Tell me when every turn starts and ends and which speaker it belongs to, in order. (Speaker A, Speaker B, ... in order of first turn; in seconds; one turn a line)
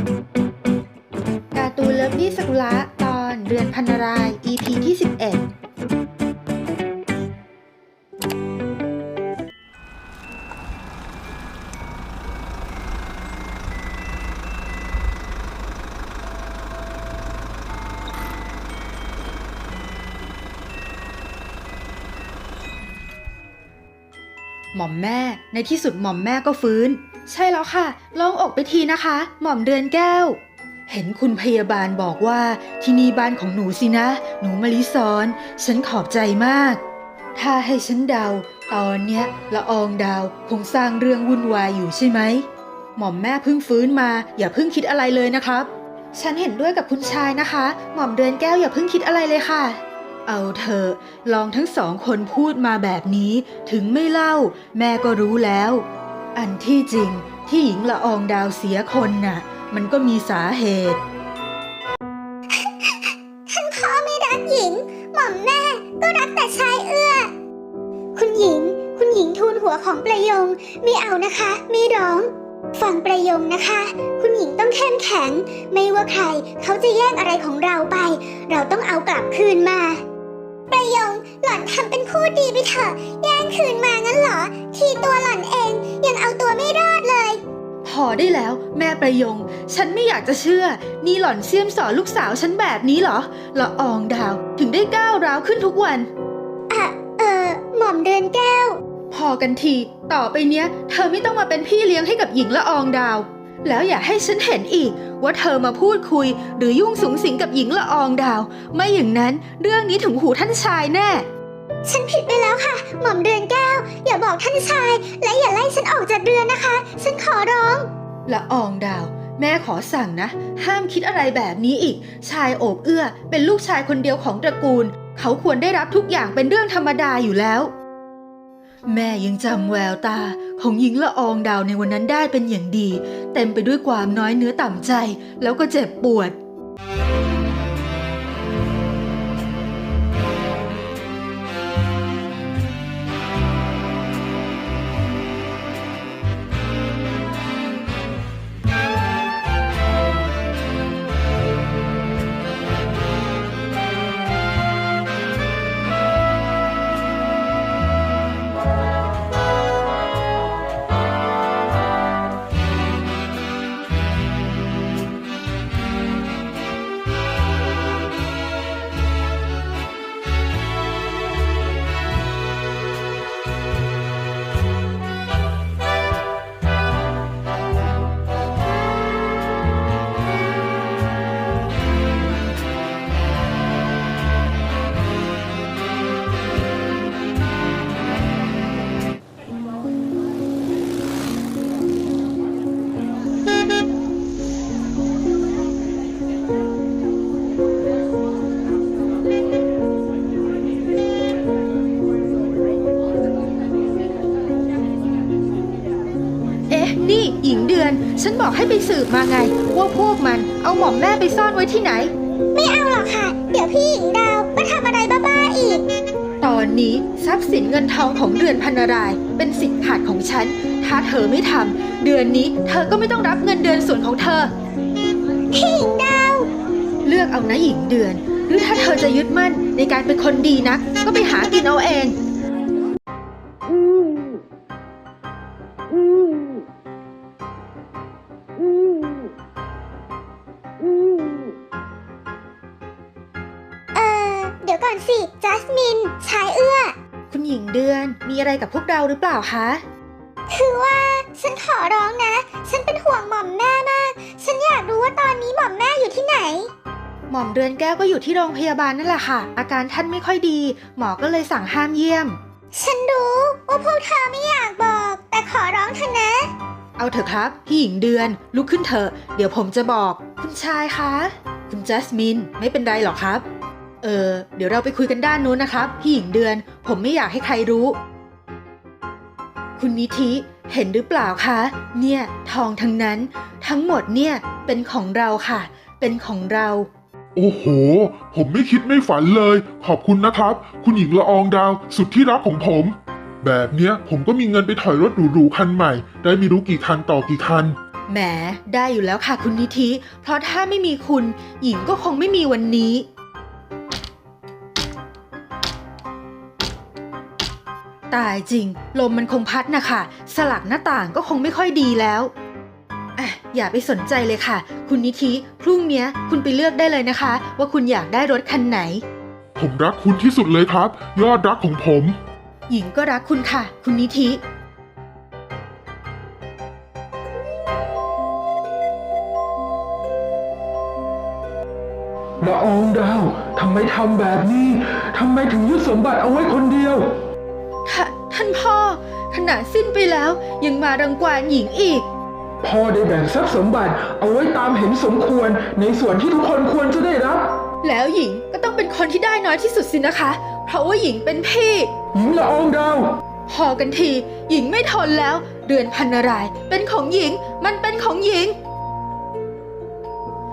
Speaker A: 1.5-5.5
Speaker A: 24.7-30.4
Speaker A: 30.9-36.8
Speaker A: 37.4-42.5
Speaker A: 43.0-61.0
Speaker B: 62.6-67.3
Speaker B: 68.2-80.0
Speaker B: 80.7-87.4
Speaker A: 87.8-96.1
Speaker B: 96.7-98.8
Speaker A: 99.1-111.2
Speaker B: 111.8-117.9
Speaker A: 118.3-127.7
Speaker A: 128.9-136.3
Speaker A: 206.7-212.1
Speaker B: 212.5-215.8
Speaker A: 216.4-224.5
Speaker B: 225.5-226.5
Speaker A: 227.0-232.1
Speaker B: 243.9-246.9
Speaker A: 247.3-249.8
Speaker B: 250.5-256.7
Speaker A: 257.3-262.4
Speaker B: 262.7-266.5
Speaker A: 267.0-273.4
Speaker A: 274.0-278.0
Speaker A: 279.8-286.9
Speaker C: 287.4-297.7
Speaker A: 298.1-303.1
Speaker A: 308.1-312.3
Speaker A: 313.1-319.0
Speaker C: 319.6-322.2
Speaker A: 322.7-324.4
Speaker D: 332.4-337.2
Speaker A: 337.8-342.1
Speaker D: 342.6-347.5
Speaker A: 347.8-351.9
Speaker D: 352.1-353.1
Speaker A: 353.5-358.6